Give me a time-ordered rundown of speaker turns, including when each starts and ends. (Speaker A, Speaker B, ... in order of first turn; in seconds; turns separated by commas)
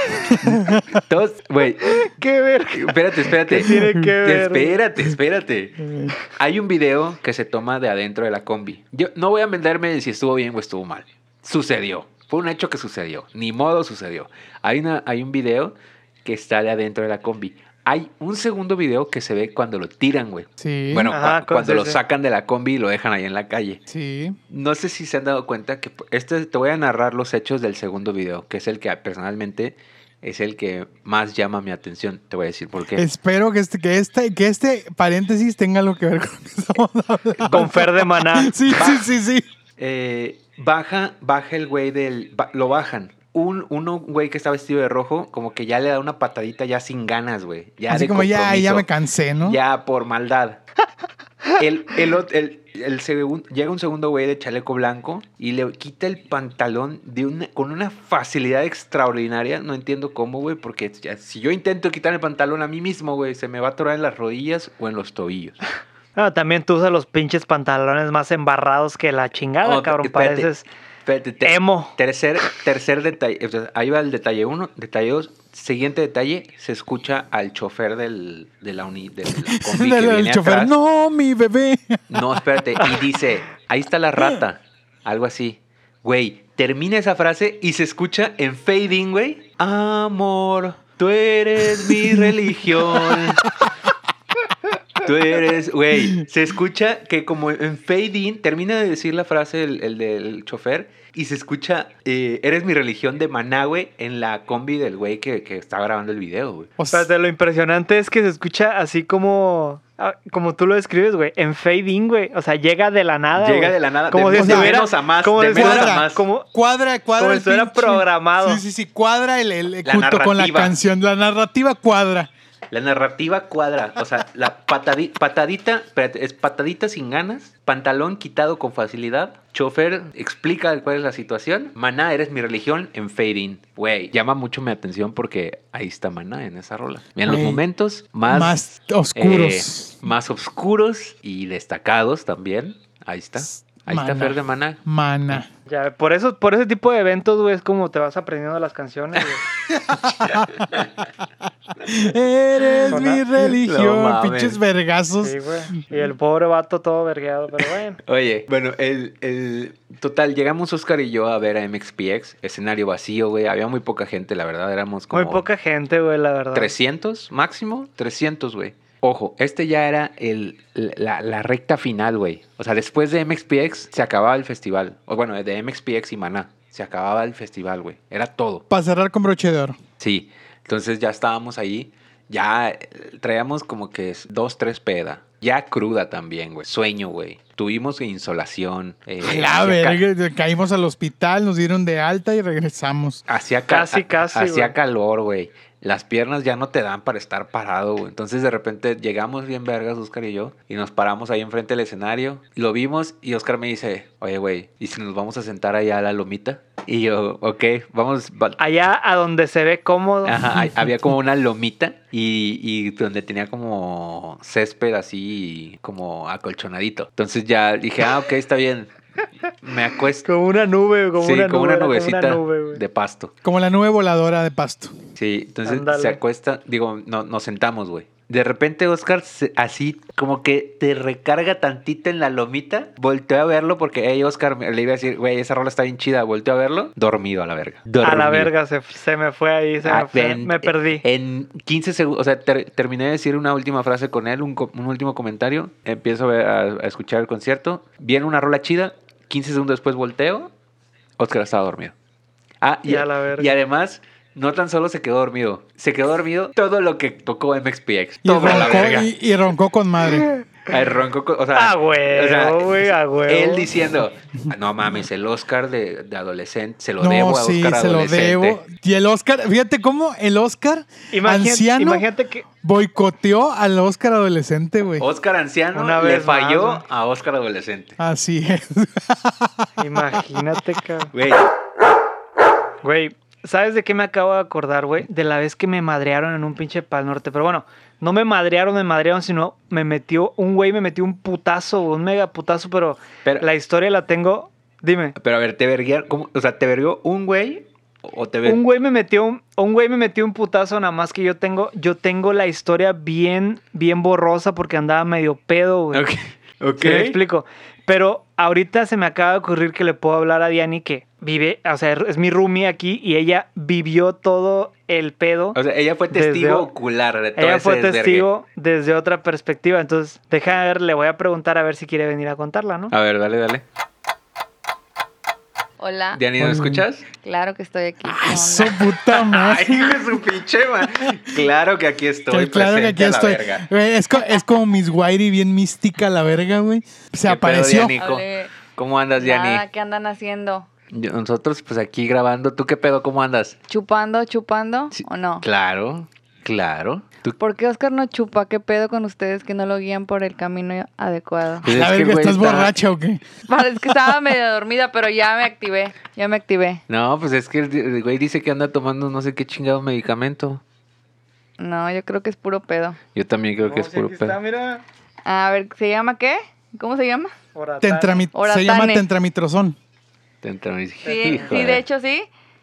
Speaker A: 0.4-2.1, Speaker B: 0.4-0.8, Speaker C: 2.0-4.8, Speaker A: 2.7-23.8, Speaker B: 20.6-21.1, Speaker C: 21.1-22.0, Speaker B: 23.9-24.4, Speaker A: 24.5-33.0, Speaker B: 33.0-39.5, Speaker A: 37.4-37.7, Speaker C: 37.5-38.5, Speaker A: 38.7-39.0, Speaker A: 39.8-48.9, Speaker B: 47.9-49.6, Speaker A: 49.4-50.6, Speaker A: 51.6-65.6, Speaker C: 66.2-70.7, Speaker A: 69.6-70.5, Speaker A: 71.1-80.7, Speaker C: 71.4-72.0, Speaker B: 79.5-82.2, Speaker A: 82.1-93.5, Speaker B: 91.8-92.3, Speaker B: 92.9-93.7, Speaker A: 95.0-106.7, Speaker B: 106.8-107.1, Speaker C: 106.9-116.5, Speaker A: 113.4-116.2, Speaker B: 114.3-114.8, Speaker B: 115.5-122.3, Speaker C: 117.2-118.6, Speaker A: 119.8-120.8, Speaker A: 122.7-138.6, Speaker B: 137.3-137.6, Speaker B: 138.3-140.0, Speaker A: 139.1-144.8, Speaker B: 143.4-145.5, Speaker C: 145.7-149.4, Speaker B: 149.7-150.7, Speaker B: 151.8-155.4, Speaker A: 152.8-154.6, Speaker C: 152.9-153.2, Speaker C: 155.2-158.0, Speaker A: 158.1-165.5, Speaker C: 165.1-166.7, Speaker A: 166.5-178.6, Speaker B: 178.7-179.8, Speaker A: 180.0-190.0, Speaker B: 189.2-193.2, Speaker A: 193.3-208.6, Speaker C: 193.7-194.8, Speaker C: 208.6-210.4, Speaker A: 210.2-218.9, Speaker A: 219.6-220.3, Speaker C: 220.2-222.8, Speaker A: 221.2-223.3, Speaker B: 223.4-224.9, Speaker A: 225.2-238.5, Speaker C: 225.7-226.2, Speaker C: 238.0-241.0, Speaker A: 239.8-250.5, Speaker A: 251.2-251.9, Speaker A: 252.6-259.1, Speaker C: 252.9-253.5, Speaker B: 258.2-260.3, Speaker A: 260.7-268.6, Speaker C: 261.6-263.7, Speaker B: 267.0-272.1, Speaker C: 271.1-272.5, Speaker B: 272.6-275.1, Speaker A: 275.0-278.0, Speaker C: 275.7-276.8, Speaker B: 278.0-279.7, Speaker C: 279.8-281.1, Speaker A: 281.1-281.5, Speaker C: 282.8-295.2, Speaker A: 295.2-298.6, Speaker C: 298.4-306.1, Speaker A: 305.9-307.2, Speaker C: 306.8-315.6, Speaker A: 315.6-318.3, Speaker C: 316.1-316.7, Speaker C: 317.4-322.9, Speaker A: 322.9-323.6, Speaker D: 325.8-326.2, Speaker A: 326.1-327.1, Speaker B: 326.4-326.9, Speaker D: 327.2-328.9, Speaker B: 328.2-330.0, Speaker A: 328.7-333.7, Speaker B: 332.3-338.0, Speaker A: 337.3-339.6, Speaker D: 338.0-338.6, Speaker D: 339.2-340.7, Speaker A: 340.9-343.6, Speaker D: 343.7-345.4, Speaker A: 344.9-347.4, Speaker D: 347.4-351.6, Speaker A: 351.6-352.7, Speaker B: 351.6-353.2, Speaker D: 353.5-356.8, Speaker A: 356.9-360.6, Speaker D: 361.6-363.0, Speaker A: 363.1-364.4, Speaker C: 363.6-364.8, Speaker D: 365.3-367.3, Speaker C: 367.6-368.3, Speaker B: 367.8-369.8, Speaker D: 368.3-369.0, Speaker A: 370.4-371.8, Speaker C: 371.0-371.5, Speaker D: 371.1-372.3